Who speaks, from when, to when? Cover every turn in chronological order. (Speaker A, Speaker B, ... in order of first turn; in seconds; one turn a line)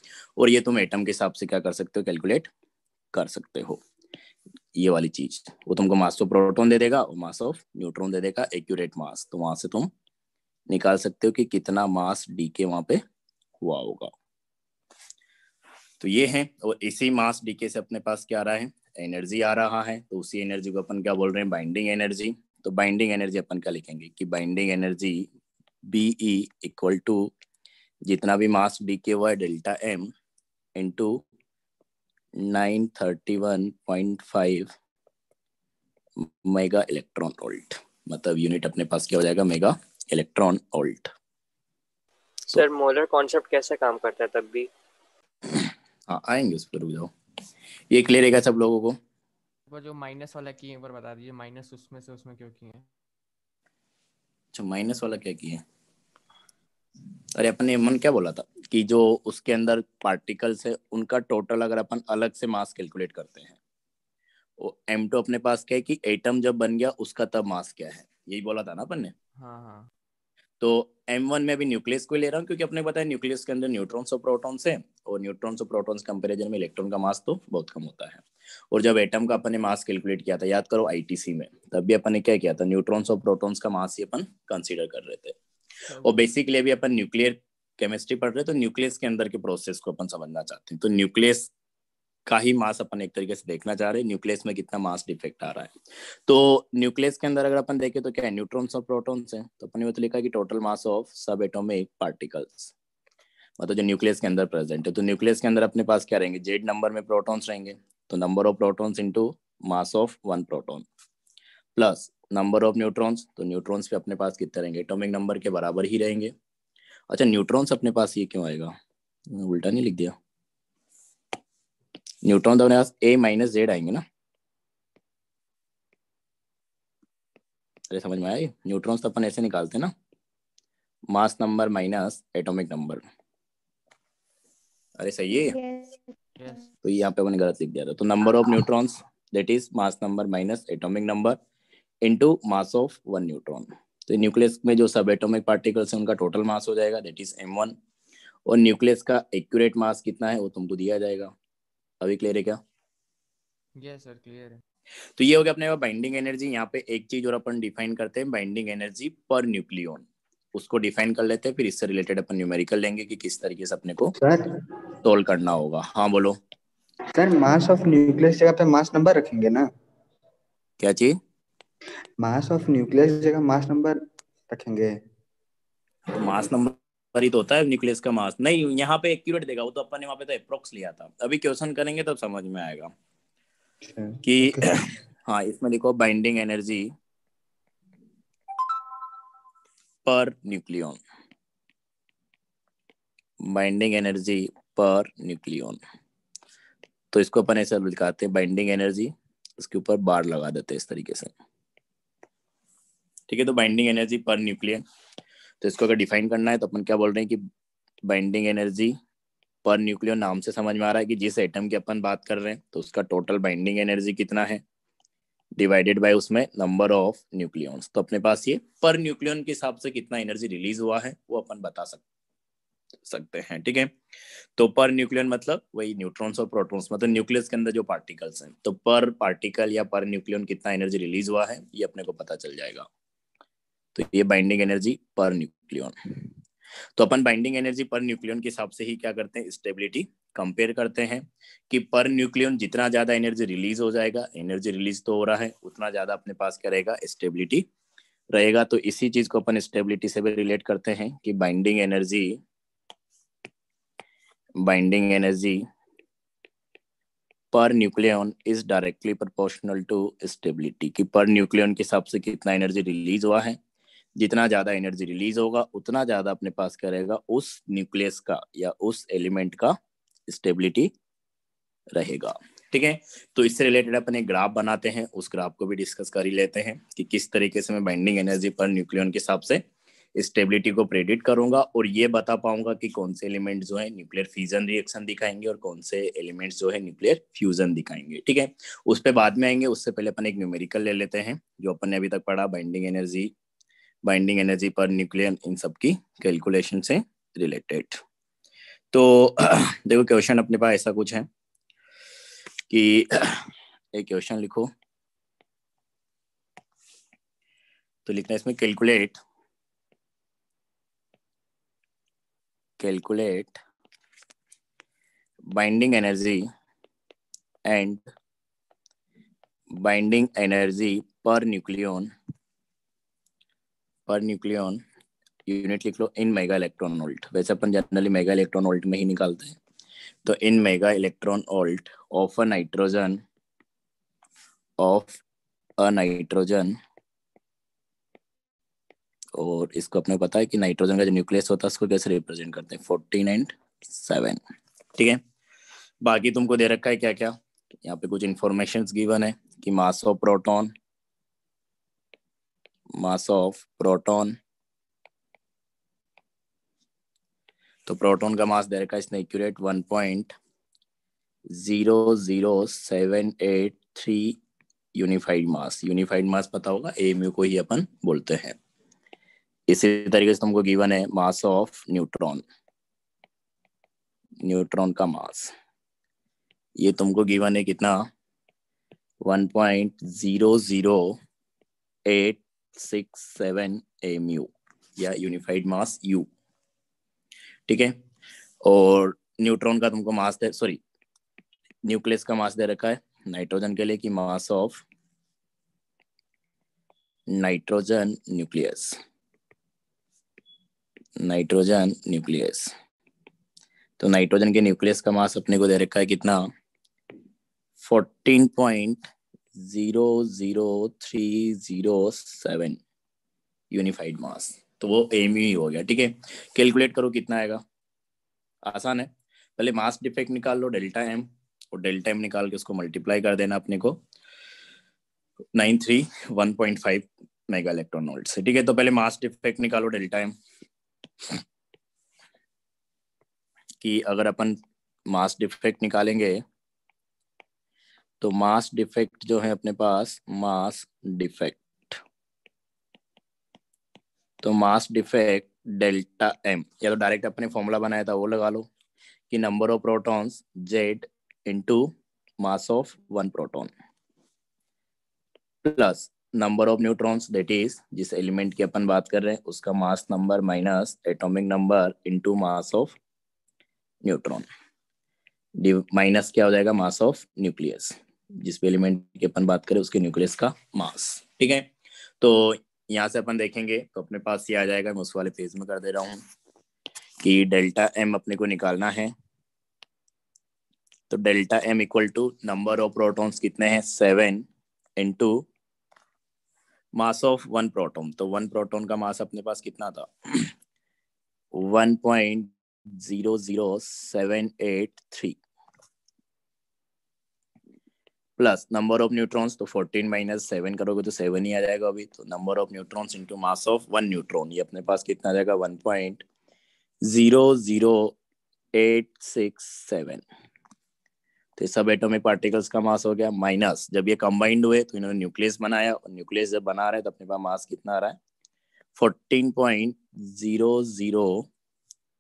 Speaker A: 0.4-2.5
Speaker A: 3.1-3.8
Speaker A: 4.8-9.9
Speaker A: 10.7-13.0
Speaker A: 13.6-14.1
Speaker A: 16.0-25.3
Speaker A: 25.9-27.3
Speaker A: 28.1-30.1
Speaker A: 30.8-31.2
Speaker A: 32.4-34.7
Speaker A: 36.2-41.1
Speaker B: 42.5-44.7
Speaker A: 45.5-47.1
Speaker A: 47.9-49.0
Speaker C: 49.7-52.9
Speaker A: 54.5-55.6
Speaker A: 57.3-63.6
Speaker A: 64.6-69.1
Speaker C: 69.3-69.9
Speaker A: 70.6-85.3
Speaker C: 85.9-86.2
Speaker A: 86.0-91.5
Speaker A: 92.3-95.7
Speaker A: 96.3-102.7
Speaker A: 103.6-110.8
Speaker A: 111.8-116.3
Speaker A: 117.1-118.7
Speaker A: 119.3-120.1
Speaker A: 122.2-124.0
Speaker A: 127.9-129.9
Speaker A: 131.1-133.0
Speaker A: 135.0-135.6
Speaker C: 136.4-136.7
Speaker A: 136.8-141.4
Speaker A: 142.0-147.8
Speaker A: 148.4-151.3
Speaker A: 152.0-152.6
Speaker C: 153.8-154.6
Speaker A: 155.2-164.1
Speaker D: 164.2-164.6
Speaker A: 165.0-166.4
Speaker D: 167.1-169.6
Speaker A: 170.8-171.2
Speaker D: 172.2-174.9
Speaker A: 176.1-182.9
Speaker D: 183.8-184.7
Speaker A: 184.2-186.9
Speaker A: 190.0-191.0
Speaker A: 193.4-195.8
Speaker A: 197.1-201.3
Speaker A: 203.3-204.8
Speaker A: 205.6-207.4
Speaker A: 208.1-208.9
Speaker A: 209.6-214.6
Speaker A: 215.6-222.0
Speaker A: 223.0-223.9
Speaker A: 224.6-232.9
Speaker A: 233.9-235.9
Speaker A: 237.0-247.6
Speaker A: 248.3-252.4
Speaker A: 254.6-255.6
Speaker A: 257.5-263.6
Speaker A: 264.2-270.9
Speaker A: 271.9-279.6
Speaker A: 280.1-293.3
Speaker A: 294.0-298.0
Speaker A: 298.9-301.3
Speaker A: 302.7-304.7
Speaker A: 308.1-309.2
Speaker A: 312.8-313.6
Speaker A: 315.5-316.5
Speaker A: 317.6-318.1
Speaker A: 319.8-322.1
Speaker A: 324.1-324.8
Speaker A: 325.5-329.6
Speaker A: 330.2-333.2
Speaker A: 334.8-335.2
Speaker A: 335.8-336.8
Speaker A: 339.4-344.4
Speaker A: 346.0-350.7
Speaker A: 353.0-354.4
Speaker A: 357.9-360.3
Speaker A: 361.5-364.4
Speaker A: 364.9-368.6
Speaker A: 369.7-372.4
Speaker A: 374.4-375.5
Speaker A: 376.8-378.0
Speaker A: 379.2-381.2
Speaker A: 382.1-386.3
Speaker A: 387.7-387.9
Speaker A: 388.6-390.8
Speaker A: 391.8-394.8
Speaker A: 397.3-399.0
Speaker A: 401.2-402.7
Speaker A: 404.0-406.4
Speaker A: 407.8-412.8
Speaker A: 413.7-417.6
Speaker A: 418.6-424.0
Speaker A: 425.5-430.3
Speaker A: 433.8-434.6
Speaker A: 435.1-436.4
Speaker A: 438.2-442.0
Speaker A: 444.4-448.7
Speaker A: 449.3-451.9
Speaker A: 452.4-453.7
Speaker A: 455.6-463.0
Speaker A: 464.0-464.5
Speaker A: 465.6-471.7
Speaker A: 472.2-476.2
Speaker A: 477.2-479.1
Speaker A: 481.1-484.5
Speaker A: 485.0-485.5
Speaker A: 487.0-490.5
Speaker A: 491.5-495.4
Speaker A: 498.4-506.2
Speaker A: 507.1-508.1
Speaker A: 508.7-510.2
Speaker A: 511.6-518.2
Speaker A: 519.0-521.5